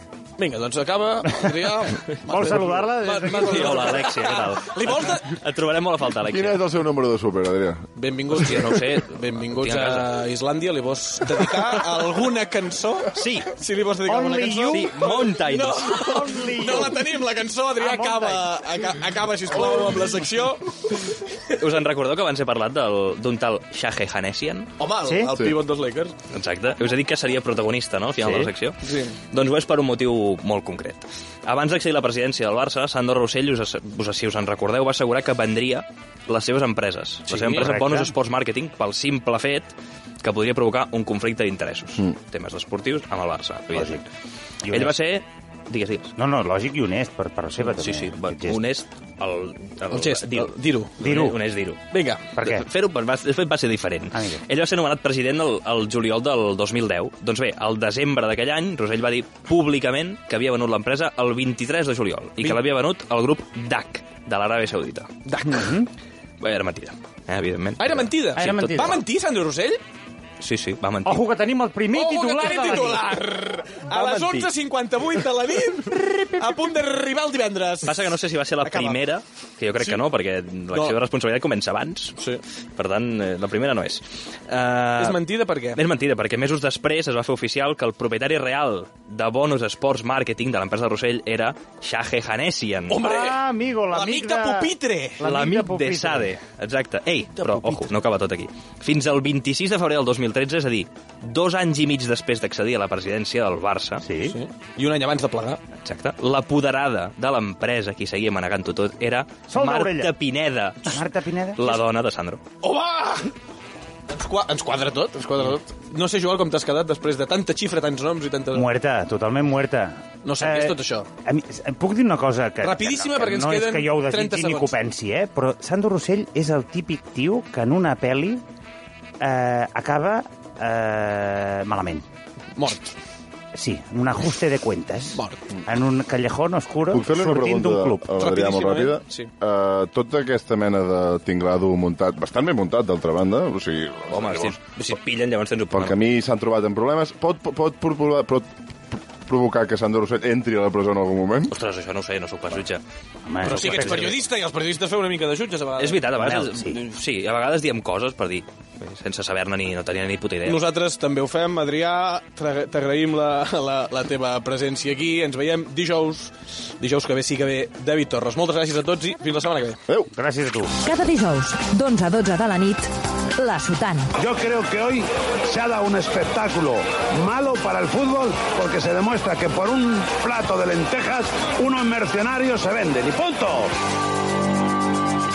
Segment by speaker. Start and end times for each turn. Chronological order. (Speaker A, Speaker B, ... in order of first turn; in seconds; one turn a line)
Speaker A: 0.4-5.4
Speaker B: 2.3-4.0
Speaker C: 3.2-6.6
Speaker D: 6.2-7.9
Speaker A: 8.0-20.8
Speaker C: 8.4-10.2
Speaker C: 13.1-13.5
Speaker B: 14.1-15.1
Speaker C: 14.7-16.0
Speaker B: 15.8-17.0
Speaker B: 17.8-18.5
Speaker C: 21.5-24.7
Speaker A: 24.8-26.1
Speaker B: 25.1-25.4
Speaker C: 26.3-28.8
Speaker A: 28.3-29.2
Speaker C: 29.3-44.1
Speaker A: 37.3-37.8
Speaker B: 37.5-38.1
Speaker B: 43.7-44.0
Speaker B: 44.6-45.0
Speaker C: 44.7-46.1
Speaker B: 46.2-48.6
Speaker C: 47.6-51.8
Speaker A: 49.9-51.0
Speaker B: 51.0-51.4
Speaker A: 51.9-52.3
Speaker B: 52.4-52.7
Speaker C: 52.4-65.1
Speaker B: 54.1-54.4
Speaker A: 65.3-65.7
Speaker B: 65.5-65.9
Speaker C: 66.4-69.1
Speaker A: 67.8-69.8
Speaker B: 68.4-69.0
Speaker C: 70.4-71.3
Speaker B: 71.0-73.1
Speaker A: 71.9-79.0
Speaker C: 73.9-74.5
Speaker C: 77.8-82.2
Speaker A: 80.7-81.0
Speaker C: 82.8-85.2
Speaker A: 85.0-85.8
Speaker C: 85.8-93.0
Speaker A: 92.9-95.2
Speaker B: 93.0-96.3
Speaker C: 95.2-104.0
Speaker A: 97.4-97.9
Speaker B: 104.0-104.4
Speaker A: 104.2-105.6
Speaker C: 105.8-111.0
Speaker B: 109.5-110.1
Speaker B: 110.9-111.7
Speaker C: 111.6-112.4
Speaker A: 112.6-113.3
Speaker A: 114.1-118.7
Speaker B: 118.5-128.4
Speaker A: 120.2-121.1
Speaker A: 122.6-124.8
Speaker B: 129.2-132.1
Speaker A: 132.6-132.9
Speaker B: 133.6-138.1
Speaker A: 135.2-135.4
Speaker D: 136.9-144.6
Speaker A: 138.2-139.3
Speaker C: 144.1-146.0
Speaker D: 145.8-151.5
Speaker C: 151.5-152.8
Speaker B: 153.3-154.2
Speaker C: 153.4-154.2
Speaker A: 153.4-156.4
Speaker C: 155.8-160.6
Speaker B: 156.2-156.8
Speaker A: 160.4-169.8
Speaker B: 170.1-170.8
Speaker E: 170.8-174.1
Speaker F: 174.2-183.7